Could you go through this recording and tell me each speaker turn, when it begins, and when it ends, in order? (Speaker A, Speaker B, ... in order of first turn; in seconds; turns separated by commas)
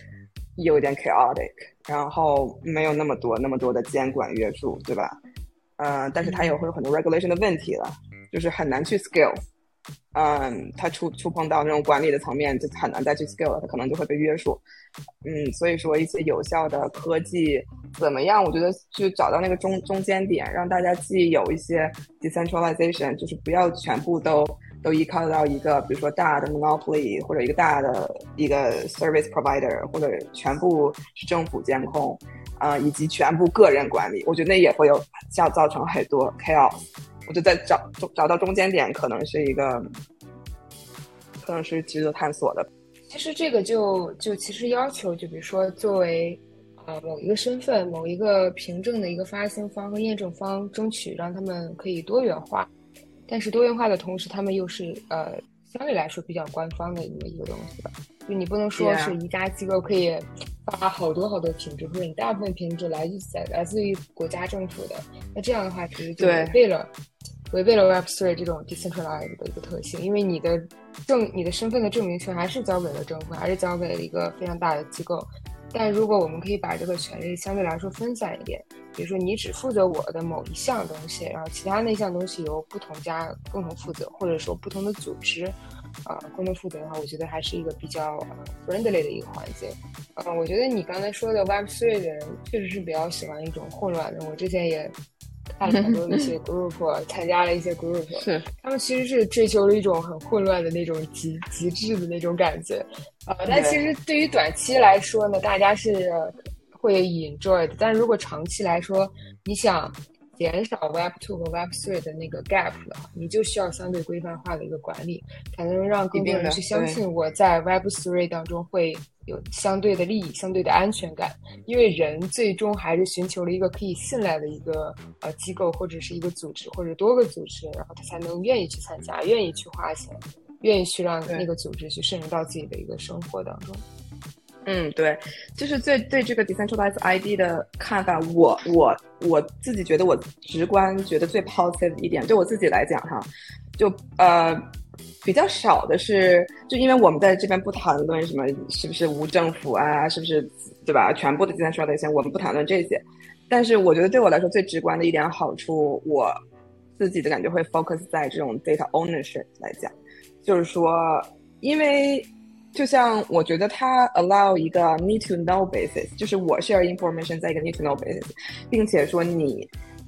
Speaker A: 0.6-5.2, Speaker A: 5.8-9.4, Speaker B: 6.3-6.5, Speaker A: 10.1-14.6, Speaker A: 15.2-39.9, Speaker A: 41.4-42.7, Speaker B: 43.1-52.7, Speaker B: 53.3-66.9, Speaker A: 58.8-59.1, Speaker A: 66.2-66.5, Speaker B: 67.5-94.9, Speaker B: 95.6-133.8, Speaker A: 95.6-96.3, Speaker A: 98.2-98.5, Speaker A: 103.5-103.8, Speaker A: 116.1-117.0, Speaker A: 134.6-144.6, Speaker A: 145.2-156.4, Speaker A: 157.0-169.7